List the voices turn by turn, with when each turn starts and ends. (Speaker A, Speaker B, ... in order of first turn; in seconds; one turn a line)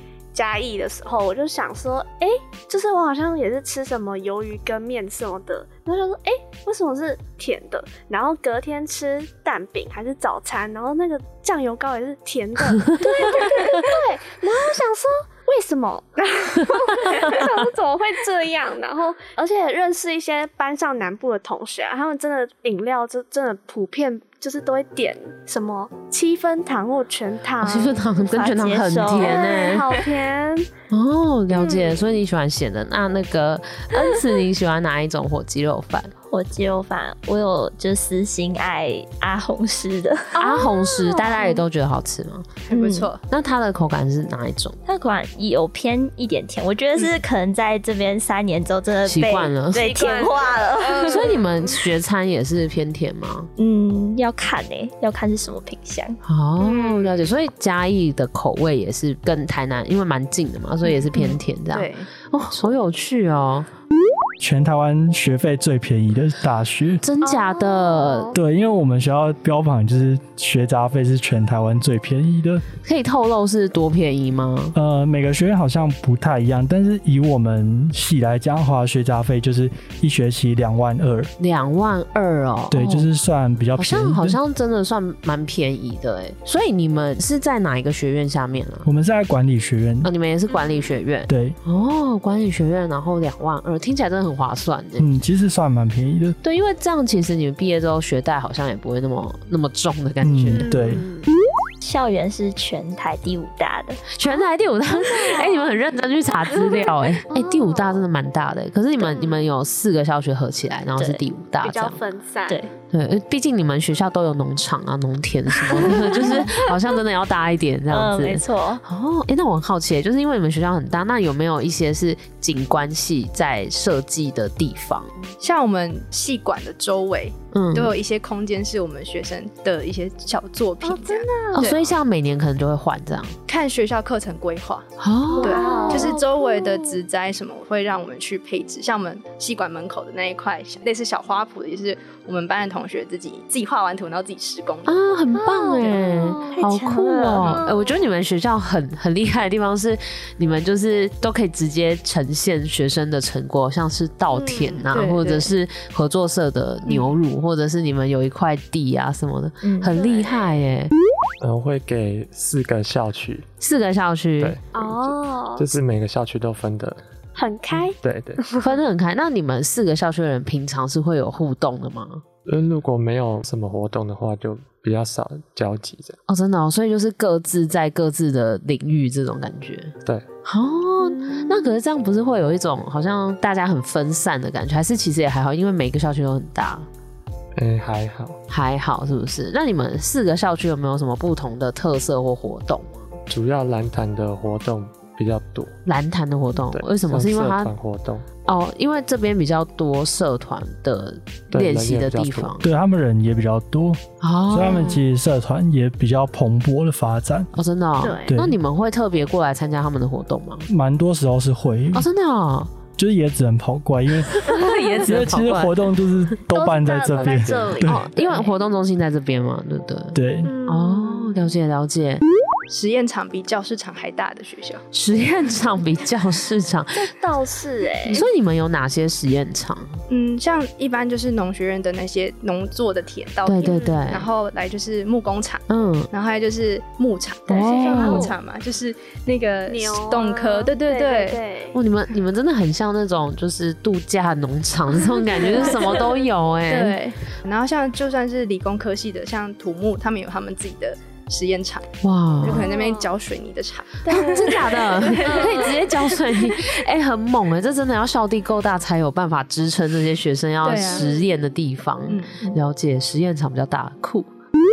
Speaker A: 0.3-28.0
Speaker B: 27.6-29.9
Speaker C: 28.2-29.7
Speaker A: 29.2-30.7
Speaker B: 30.9-36.1
Speaker A: 31.5-32.0
Speaker C: 36.3-40.4
Speaker A: 40.4-41.6
Speaker B: 40.4-42.5
Speaker D: 42.7-43.2
Speaker C: 42.7-43.1
Speaker B: 43.3-44.8
Speaker C: 44.9-51.4
Speaker B: 49.0-49.9
Speaker A: 49.8-51.7
Speaker B: 51.0-53.5
Speaker C: 53.6-56.2
Speaker B: 56.2-63.7
Speaker A: 56.6-57.3
Speaker D: 61.1-62.1
Speaker E: 64.4-67.0
Speaker B: 67.0-68.3
Speaker A: 67.2-68.4
Speaker E: 68.3-72.6
Speaker B: 72.8-74.8
Speaker E: 74.8-81.3
Speaker B: 81.4-83.1
Speaker E: 82.7-84.4
Speaker B: 83.8-88.9
Speaker E: 88.8-90.1
Speaker B: 90.0-95.1
Speaker A: 90.5-91.0
Speaker E: 91.3-91.6
Speaker E: 95.0-96.4
Speaker B: 96.4-100.7
Speaker E: 100.2-101.0
Speaker A: 100.5-101.3
Speaker C: 101.8-104.0
Speaker B: 104.1-112.0
Speaker A: 105.0-105.5
Speaker A: 107.3-108.0
Speaker C: 111.0-111.2
Speaker A: 111.6-112.7
Speaker B: 112.9-125.1
Speaker C: 115.7-116.5
Speaker C: 117.9-118.8
Speaker D: 125.4-131.9
Speaker B: 127.5-128.0
Speaker A: 130.8-131.7
Speaker B: 131.6-133.4
Speaker D: 133.5-134.9
Speaker B: 135.0-135.9
Speaker A: 135.4-136.5
Speaker D: 135.4-145.0
Speaker C: 135.8-136.2
Speaker B: 144.9-160.9
Speaker A: 145.5-148.0
Speaker C: 146.4-147.6
Speaker A: 154.3-154.8
Speaker D: 154.9-155.5
Speaker C: 159.6-159.9
Speaker A: 159.9-160.4
Speaker F: 161.4-163.5
Speaker B: 163.6-164.6
Speaker F: 164.4-167.0
Speaker A: 164.7-165.7
Speaker A: 167.4-168.7
Speaker F: 168.0-168.4
Speaker B: 168.6-172.2
Speaker F: 172.5-176.2
Speaker B: 176.3-179.9
Speaker B: 180.4-186.9
Speaker A: 181.0-181.8
Speaker F: 187.6-188.4
Speaker B: 188.5-193.2
Speaker F: 193.3-195.7
Speaker B: 195.9-197.7
Speaker F: 196.7-198.3
Speaker B: 198.4-202.6
Speaker F: 201.5-202.5
Speaker E: 202.6-207.5
Speaker B: 204.2-205.0
Speaker B: 207.6-210.7
Speaker A: 208.0-208.3
Speaker E: 208.3-208.6
Speaker E: 210.7-212.1
Speaker B: 211.9-212.8
Speaker E: 212.9-218.1
Speaker B: 214.3-215.9
Speaker A: 216.5-218.5
Speaker F: 217.2-217.6
Speaker B: 217.8-222.2
Speaker E: 220.1-220.5
Speaker A: 220.4-221.4
Speaker D: 222.7-224.8
Speaker B: 224.9-227.0
Speaker A: 226.9-228.3
Speaker B: 228.1-230.0
Speaker D: 230.1-241.4
Speaker B: 233.4-234.3
Speaker A: 233.6-234.1
Speaker B: 235.7-236.1
Speaker B: 237.5-238.3
Speaker A: 237.6-238.3
Speaker C: 237.6-238.2
Speaker A: 239.7-241.8
Speaker B: 241.7-247.0
Speaker A: 245.4-246.2
Speaker D: 245.5-245.8
Speaker D: 246.7-251.9
Speaker B: 252.0-252.7
Speaker D: 252.4-255.9
Speaker A: 252.6-253.1
Speaker A: 254.1-255.9
Speaker B: 254.1-264.3
Speaker D: 260.6-261.1
Speaker A: 260.9-261.3
Speaker D: 262.1-262.5